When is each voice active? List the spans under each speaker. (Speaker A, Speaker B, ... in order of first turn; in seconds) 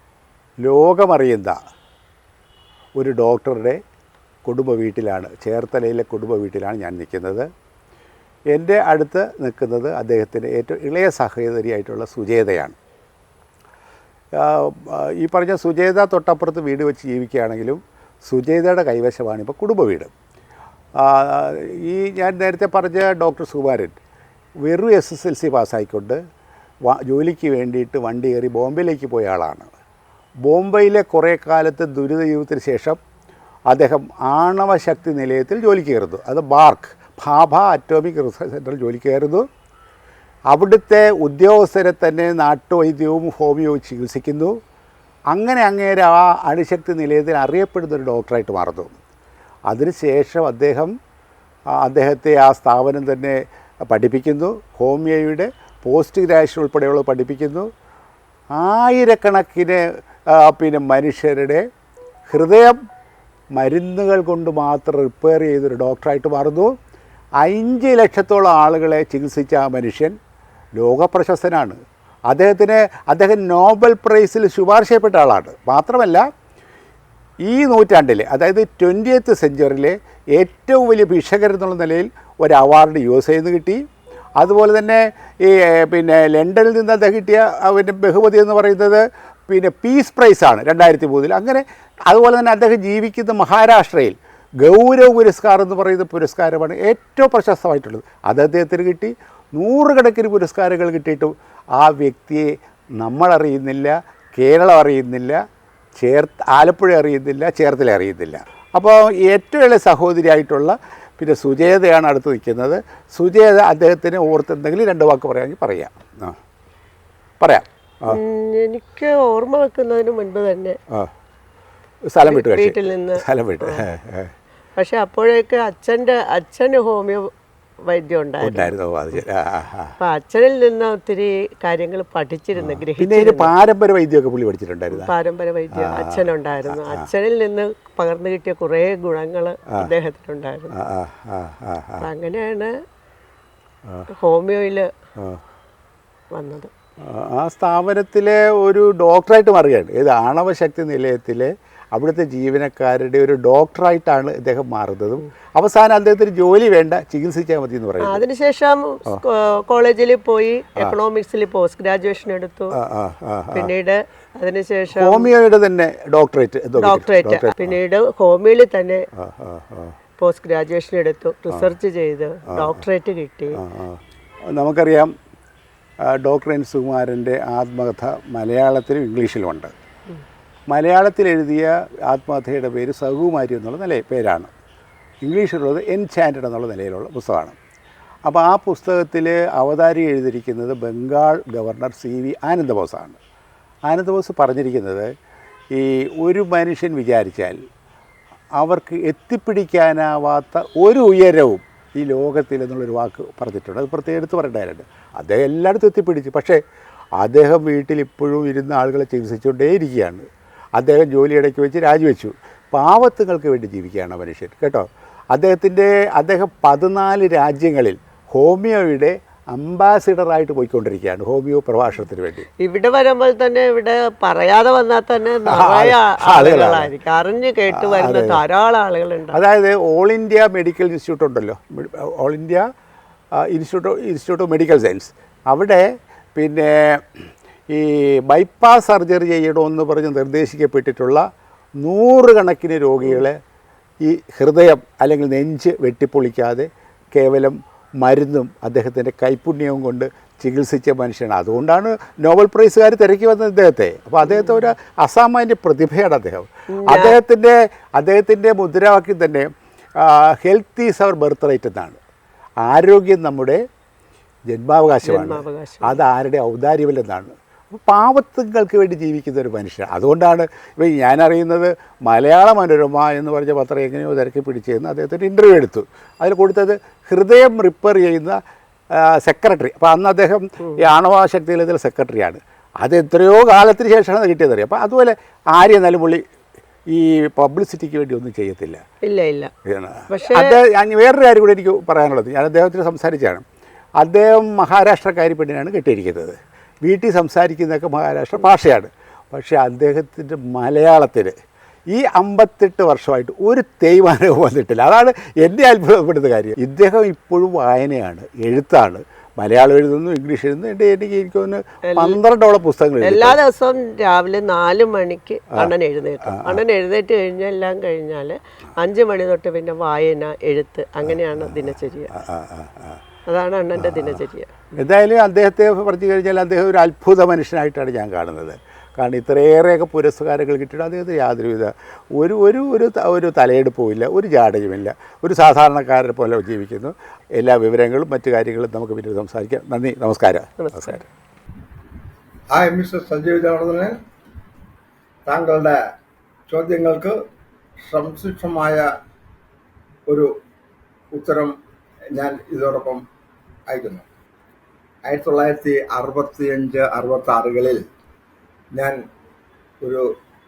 Speaker A: 0.6-1.6, 3.0-3.8, 4.5-7.5, 8.5-12.8, 14.3-20.1, 21.0-24.0, 24.6-26.2, 26.9-29.7, 30.4-33.0, 33.7-39.5, 40.5-44.6, 45.3-49.0, 49.7-50.9, 51.8-57.7, 58.5-61.6, 62.3-62.8, 63.5-66.7, 67.4-70.2, 70.8-71.8, 72.3-76.2, 77.4-83.8, 84.4-105.4, 106.0-116.4, 117.4-118.2, 122.1-124.3, 128.4-129.9, 132.5-135.1, 135.7-137.1, 140.7-142.1, 147.0-158.2, 162.7-163.7, 164.9-167.8, 169.2-169.9, 172.5-172.8, 173.6-175.1, 176.0-179.7, 180.7-184.5, 185.2-187.5, 188.2-193.2, 193.9-195.1, 195.7-197.6, 198.6-206.6, 207.2-222.5, 225.5-226.9, 227.7-228.4, 229.3-232.7, 233.3-241.2, 241.8-243.4, 244.0-262.0, 262.6-263.6, 264.5-278.4, 278.9-286.2, 286.9-288.8, 289.6-293.4, 294.0-301.4, 301.9-313.4, 316.2-316.6, 321.1-323.0, 323.8-324.2, 324.8-341.0
Speaker B: 118.1-120.8, 122.2-123.8, 124.8-127.3, 127.8-129.2, 130.0-133.5, 134.9-140.7, 142.0-142.8, 144.2-144.9, 146.3-146.7, 158.0-162.7, 163.5-165.3, 166.8-169.1, 170.2-173.6, 222.6-229.4, 256.7-257.1, 265.0-266.0, 289.0-289.5, 290.1-290.6, 311.9-312.2, 313.0-322.1, 323.3-324.8, 340.6-341.0
Speaker C: 342.5-344.0, 345.2-345.8, 346.5-347.2, 347.8-348.9, 350.1-350.4, 351.1-351.6, 352.1-353.1, 353.7-354.1, 355.0-357.9, 358.7-359.0, 359.8-360.1